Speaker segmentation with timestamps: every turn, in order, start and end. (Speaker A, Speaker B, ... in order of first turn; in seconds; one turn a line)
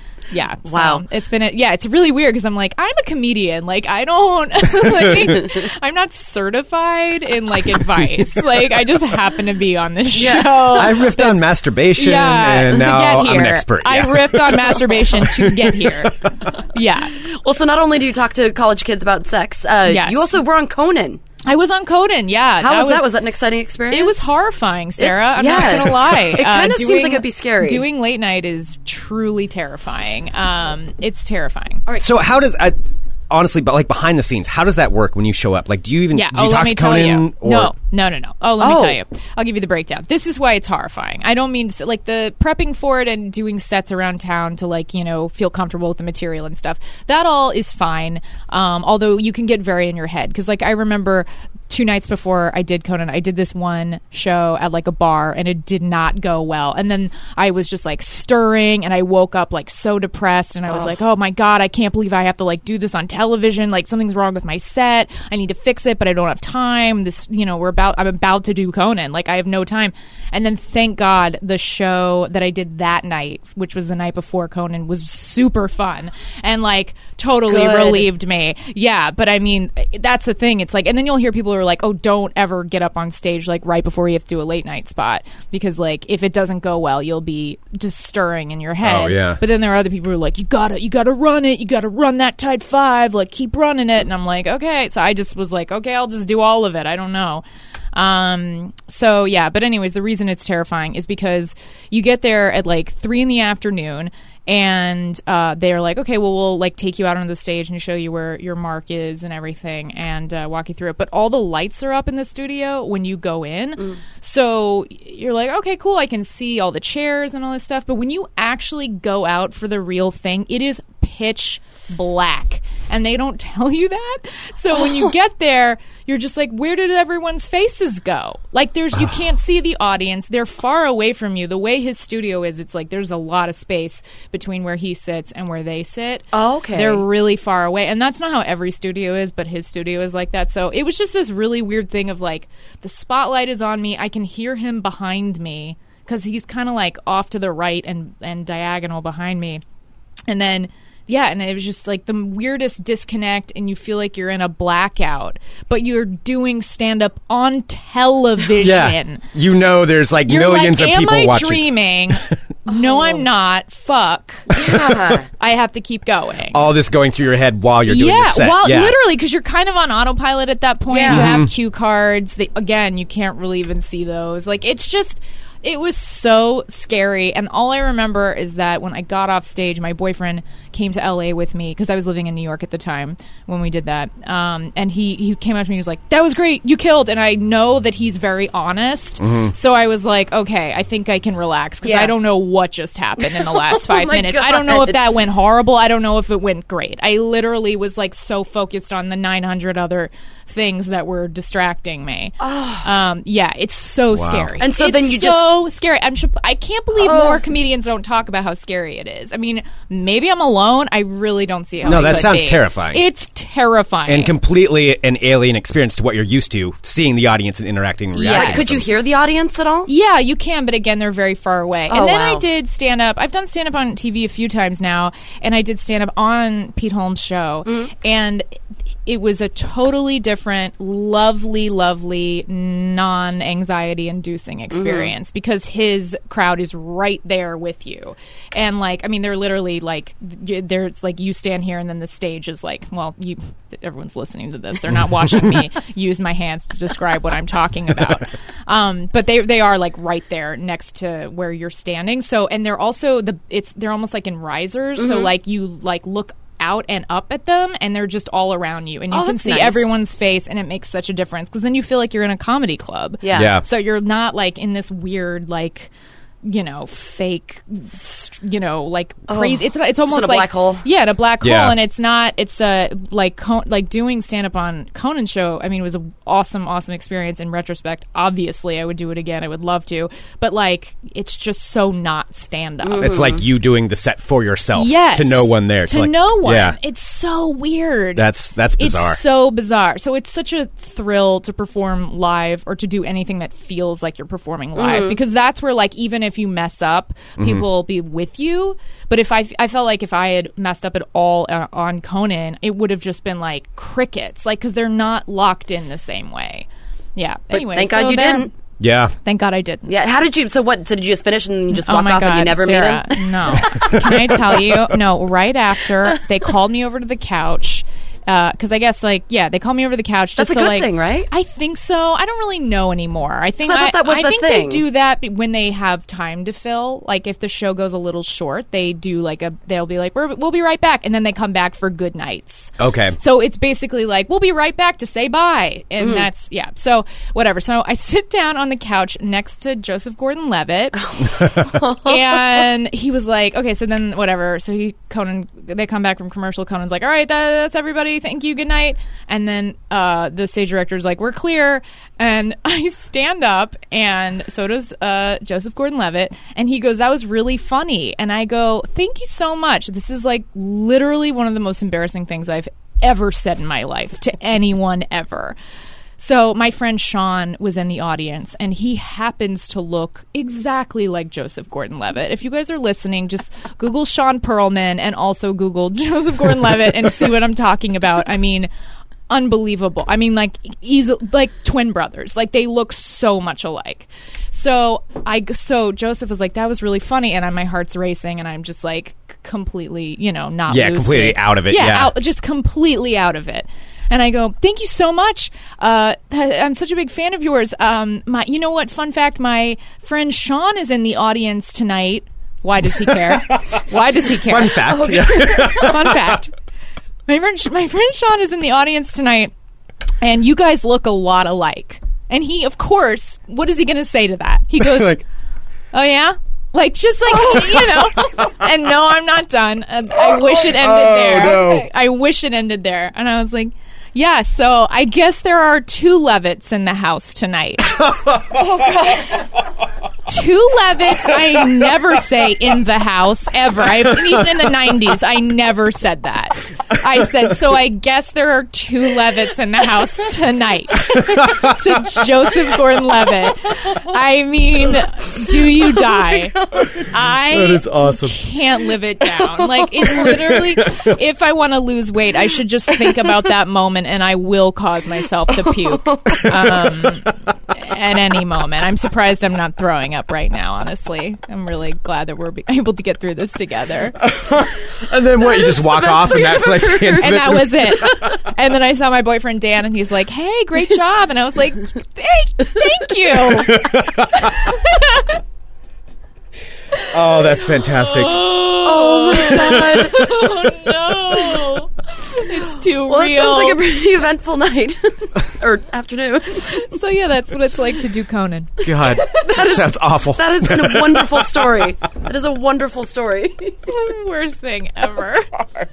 Speaker A: 0.3-17.2
Speaker B: 0.7-1.0
Speaker B: 10.1-10.9
Speaker C: 10.7-16.5
Speaker B: 17.2-21.2
Speaker A: 19.9-20.4
Speaker A: 21.5-23.1
Speaker B: 22.6-24.3
Speaker A: 23.9-31.8
Speaker B: 25.0-27.9
Speaker C: 32.0-32.8
Speaker C: 33.3-37.7
Speaker A: 36.1-149.6
Speaker B: 38.6-39.0
Speaker B: 77.5-78.1
Speaker C: 88.8-89.4
Speaker B: 136.3-137.0
Speaker A: 150.3-159.2
Speaker C: 158.6-161.7
Speaker A: 160.3-166.6
Speaker B: 162.7-163.2
Speaker B: 164.5-165.3
Speaker C: 166.5-169.0
Speaker A: 167.9-214.3
Speaker B: 170.9-171.4
Speaker C: 171.1-171.5
Speaker C: 189.2-189.5
Speaker B: 191.8-192.1
Speaker B: 193.2-195.1
Speaker B: 202.4-202.9
Speaker C: 204.1-204.6
Speaker B: 204.6-205.6
Speaker B: 207.0-207.4
Speaker C: 211.8-213.0
Speaker B: 211.9-212.2
Speaker C: 214.1-218.9
Speaker B: 218.2-219.9
Speaker A: 218.2-218.7
Speaker A: 219.9-228.5
Speaker B: 221.9-222.4
Speaker A: 229.1-265.9
Speaker B: 234.7-235.1
Speaker B: 255.0-255.3
Speaker B: 259.1-259.9
Speaker B: 263.2-263.6
Speaker C: 263.3-263.6
Speaker A: 266.4-283.2
Speaker B: 269.3-270.8
Speaker C: 271.4-271.8
Speaker B: 282.8-283.4
Speaker C: 283.0-286.8
Speaker A: 284.8-308.5
Speaker C: 288.1-289.2
Speaker B: 294.8-295.2
Speaker C: 297.4-297.6
Speaker B: 307.5-308.5
Speaker C: 308.8-309.1
Speaker A: 309.2-309.9
Speaker B: 309.9-314.0
Speaker A: 311.8-365.6
Speaker B: 320.4-321.3
Speaker B: 323.6-324.8
Speaker C: 332.8-333.2
Speaker B: 336.0-336.3
Speaker B: 341.6-342.6
Speaker A: 366.2-378.7
Speaker A: 379.3-406.5
Speaker C: 390.7-392.1
Speaker C: 403.5-403.8
Speaker C: 404.4-406.4
Speaker B: 404.8-405.9
Speaker A: 407.3-409.5
Speaker A: 410.2-415.2
Speaker C: 414.8-415.2
Speaker A: 415.9-428.0
Speaker C: 420.2-421.9
Speaker C: 428.0-428.8
Speaker B: 428.8-429.2
Speaker A: 430.3-464.2
Speaker C: 441.2-441.8
Speaker B: 446.6-446.8
Speaker C: 447.5-448.4
Speaker C: 450.1-451.1
Speaker B: 455.5-456.6
Speaker C: 464.2-468.3
Speaker B: 465.7-467.2
Speaker A: 467.1-475.4
Speaker C: 473.5-474.5
Speaker C: 477.1-478.5
Speaker A: 477.6-483.8
Speaker B: 478.8-480.4
Speaker C: 479.7-480.1
Speaker B: 483.0-486.9
Speaker A: 486.6-488.8
Speaker C: 488.8-491.9
Speaker B: 488.8-493.8
Speaker A: 493.9-495.6